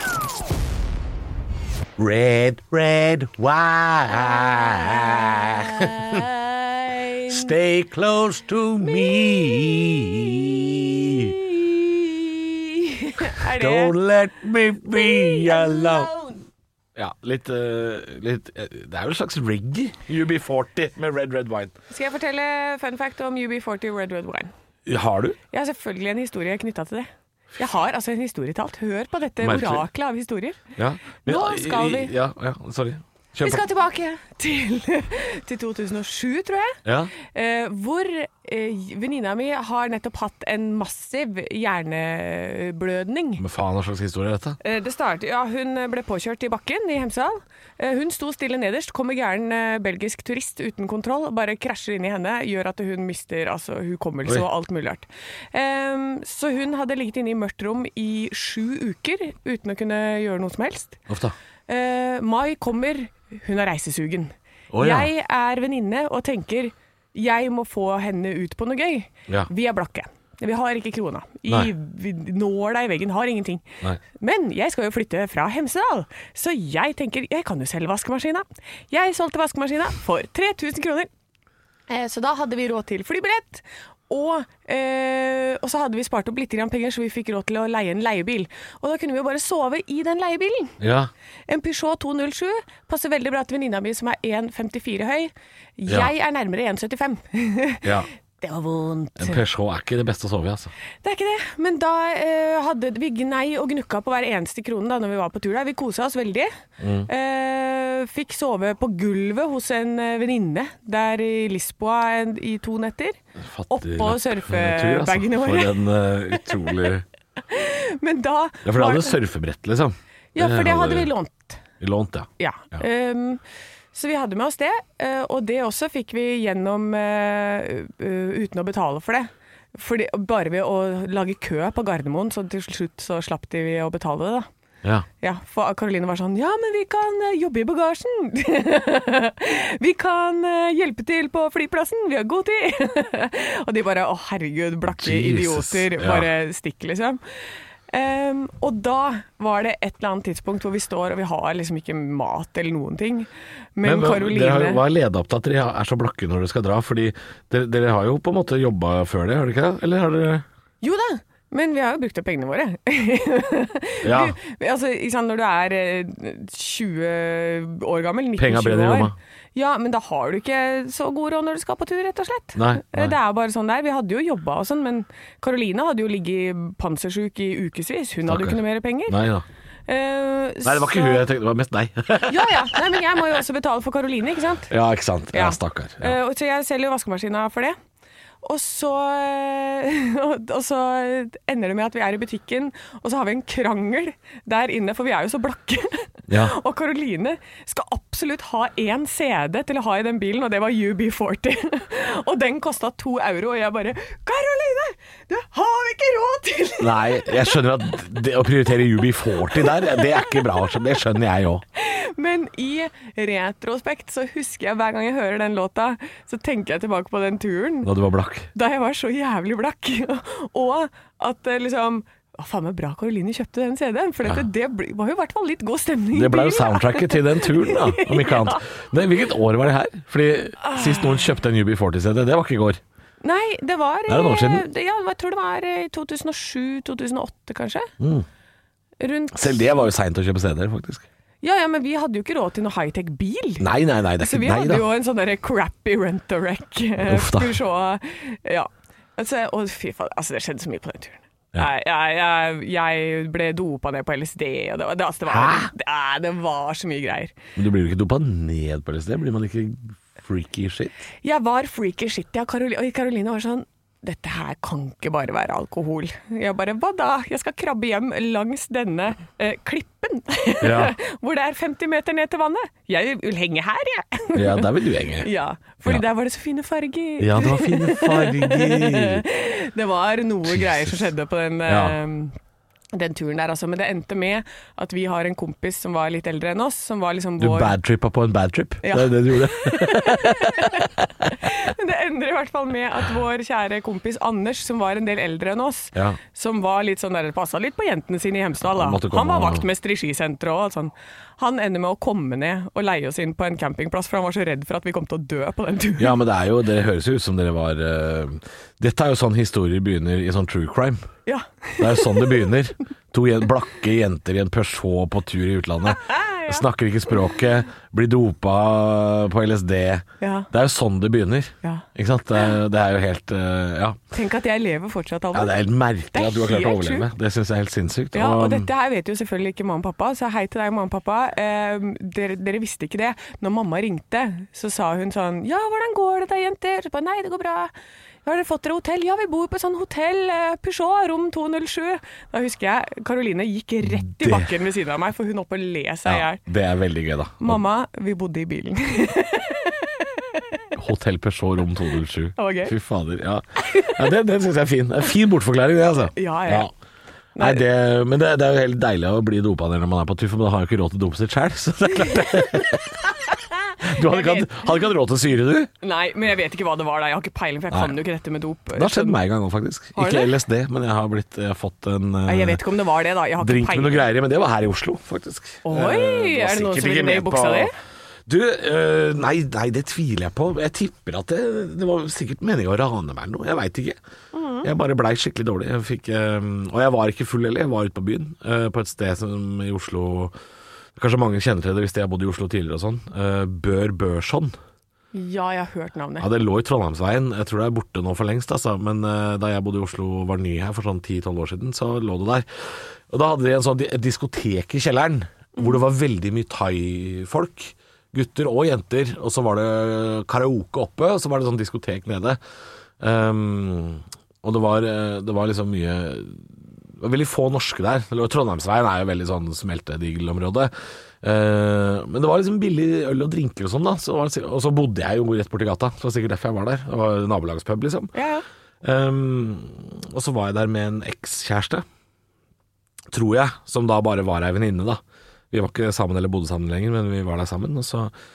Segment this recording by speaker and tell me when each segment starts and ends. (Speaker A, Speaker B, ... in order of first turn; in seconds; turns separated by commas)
Speaker A: 2.0-6.2, Speaker B: 5.8-7.5, Speaker A: 7.3-11.3, Speaker B: 8.8-9.8, Speaker B: 11.3-13.9, Speaker A: 13.4-16.1, Speaker B: 14.9-16.4, Speaker A: 16.9-21.7, Speaker B: 21.9-24.5, Speaker A: 24.9-25.4, Speaker B: 25.5-30.6, Speaker A: 29.4-29.9, Speaker A: 30.8-33.6, Speaker B: 31.2-32.1, Speaker B: 33.4-43.4, Speaker A: 36.8-37.1, Speaker A: 43.4-44.6, Speaker B: 44.6-61.0, Speaker A: 61.1-61.3, Speaker B: 61.7-73.7, Speaker A: 64.7-65.1, Speaker B: 74.2-81.1, Speaker B: 81.9-90.8, Speaker A: 90.8-91.1, Speaker B: 91.5-99.4, Speaker A: 97.8-98.1, Speaker A: 99.2-100.7, Speaker B: 101.0-106.5, Speaker A: 106.8-107.1, Speaker B: 107.1-113.2, Speaker A: 113.4-117.0, Speaker B: 113.7-115.9, Speaker B: 117.5-119.2, Speaker A: 118.6-121.1, Speaker B: 120.3-121.6, Speaker A: 121.8-122.8, Speaker B: 122.4-123.4, Speaker B: 123.9-134.5, Speaker B: 135.2-147.2, Speaker A: 144.9-146.3, Speaker B: 147.9-154.8, Speaker A: 153.8-160.4, Speaker B: 160.8-179.2, Speaker A: 164.0-164.3, Speaker A: 168.4-169.2, Speaker A: 172.5-173.2, Speaker A: 178.3-179.4, Speaker B: 179.9-181.2, Speaker A: 180.6-183.2, Speaker B: 182.3-184.7, Speaker A: 184.7-186.2, Speaker B: 185.3-187.8, Speaker B: 188.4-207.6, Speaker A: 196.3-196.6, Speaker A: 206.8-211.6, Speaker B: 209.4-210.4, Speaker B: 211.8-217.9, Speaker A: 217.8-218.5, Speaker B: 218.5-228.6, Speaker A: 226.1-232.8, Speaker B: 230.6-231.3, Speaker B: 233.2-237.9, Speaker A: 234.1-234.7, Speaker A: 238.0-238.2, Speaker B: 239.0-239.8, Speaker A: 239.3-241.1, Speaker B: 241.4-243.7, Speaker A: 243.6-244.8, Speaker B: 244.2-257.3, Speaker A: 247.0-247.6, Speaker A: 255.2-255.7, Speaker A: 257.6-261.1, Speaker B: 261.2-282.3, Speaker A: 270.6-271.0, Speaker A: 274.3-275.3, Speaker A: 277.2-279.2, Speaker A: 280.5-281.0, Speaker A: 281.7-282.0, Speaker B: 282.9-287.7, Speaker A: 287.4-290.9, Speaker B: 288.8-306.2, Speaker A: 298.7-299.6, Speaker A: 306.0-311.1, Speaker B: 311.2-312.4, Speaker A: 311.8-324.0, Speaker B: 316.0-316.6, Speaker B: 320.2-320.5, Speaker B: 324.1-325.6, Speaker A: 325.3-328.7, Speaker B: 326.1-327.1, Speaker B: 328.1-337.7, Speaker B: 338.2-346.4, Speaker A: 343.9-344.5, Speaker A: 346.1-347.6, Speaker B: 347.4-350.6, Speaker A: 350.8-356.7, Speaker B: 352.4-352.7, Speaker B: 353.6-354.1, Speaker B: 356.1-356.7, Speaker B: 357.4-357.6, Speaker A: 357.4-363.0, Speaker B: 363.2-364.8, Speaker A: 363.8-365.7, Speaker B: 365.8-369.2, Speaker A: 367.7-368.0, Speaker A: 368.7-372.6, Speaker B: 369.9-370.4, Speaker B: 372.2-374.1, Speaker A: 373.4-377.7, Speaker B: 375.6-377.7, Speaker A: 378.3-384.0, Speaker B: 384.3-384.7, Speaker A: 384.6-390.3, Speaker A: 390.9-394.6, Speaker B: 395.1-396.3, Speaker A: 396.2-412.4, Speaker B: 405.6-405.8, Speaker A: 413.0-428.1, Speaker B: 428.1-428.4, Speaker A: 428.8-431.8, Speaker A: 433.1-438.1